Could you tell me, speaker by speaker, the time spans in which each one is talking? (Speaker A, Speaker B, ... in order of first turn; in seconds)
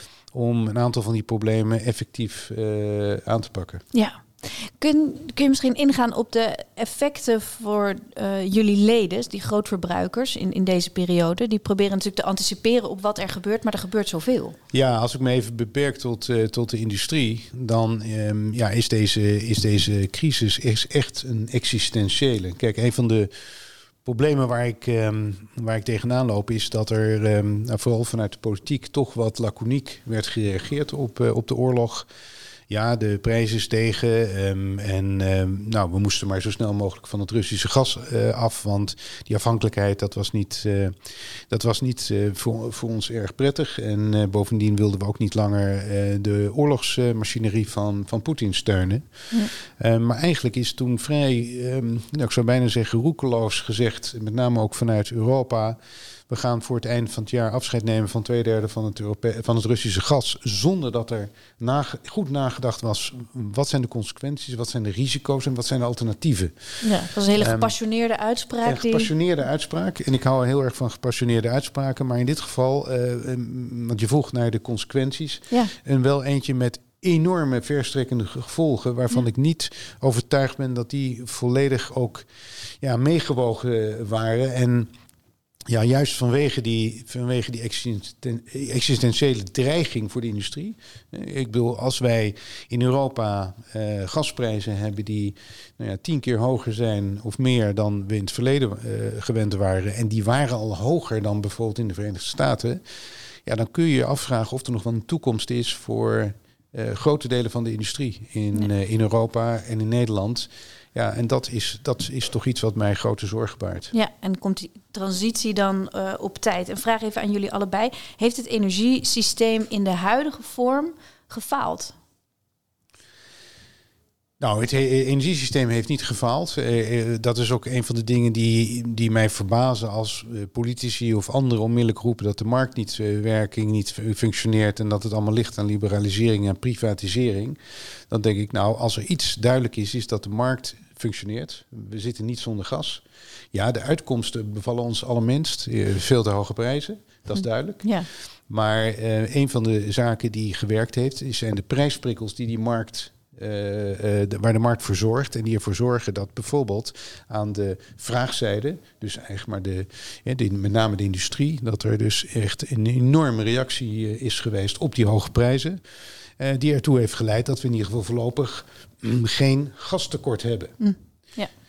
Speaker A: 0.3-3.8, 14.7-23.3, 24.0-32.1, 32.7-67.7, 68.6-82.3, 82.8-84.9, 85.7-102.8, 103.5-113.9, 124.4-137.6, 138.1-147.9, 148.5-165.8, 166.4-170.8
Speaker B: 3.9-14.6, 66.8-69.1, 113.9-121.9, 147.8-148.1, 170.8-171.5